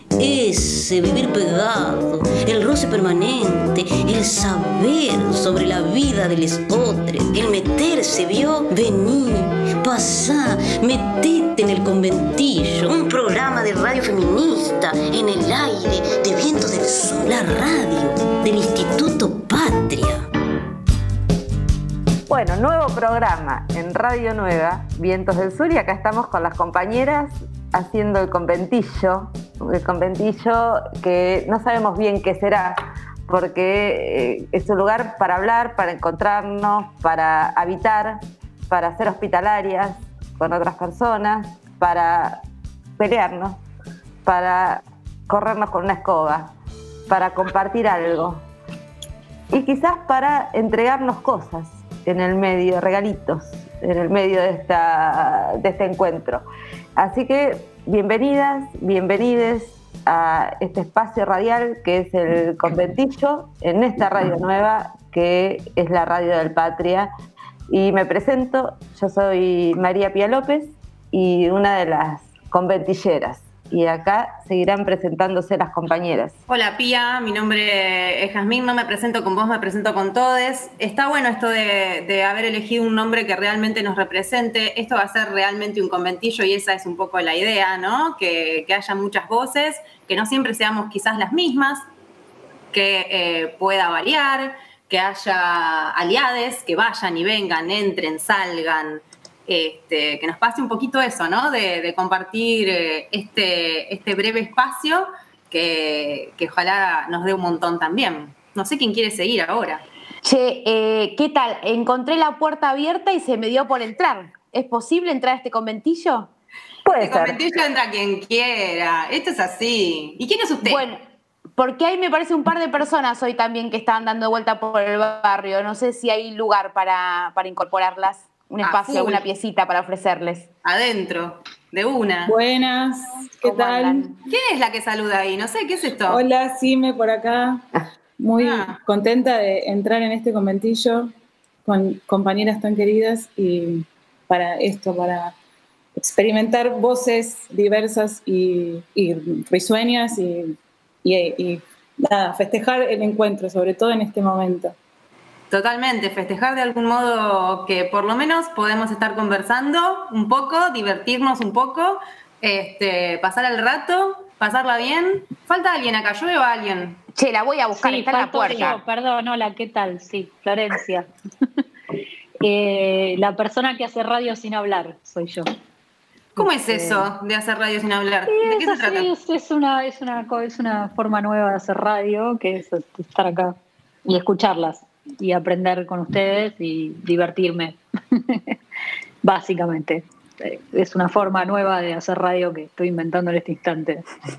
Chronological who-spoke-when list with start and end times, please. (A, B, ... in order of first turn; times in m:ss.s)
0:00.2-0:20.3 A
0:22.3-0:32.8 B
0:33.3-0:42.4 B
0:43.0-0:43.6 B
0:44.2-0:46.5 B
0:47.1-0:48.4 B
0:49.5-0:56.4 B
0:57.0-1:07.1 B
1:07.7-1:16.4 B
1:16.5-1:31.8 C
1:32.7-1:49.8 C
1:50.2-1:56.3 D
1:56.8-1:57.4 B
1:56.9-2:00.8 C
2:00.6-2:01.0 D
2:01.6-2:10.5 D
2:08.6-2:09.2 C
2:10.6-2:12.3 C
2:12.3-2:14.1 E
2:13.4-2:14.1 D
2:14.3-2:16.2 C
2:16.1-2:17.6 E
2:18.2-2:21.1 E
2:18.4-2:18.7 C
2:21.6-2:25.3 E
2:26.0-2:34.7 E
2:35.5-2:47.0 C
2:47.2-2:48.8 D
2:47.8-2:51.1 F
2:52.4-2:55.5 F
2:56.4-2:59.1 C
2:56.7-2:57.0 F
2:58.3-3:08.5 F
3:09.2-3:14.0 F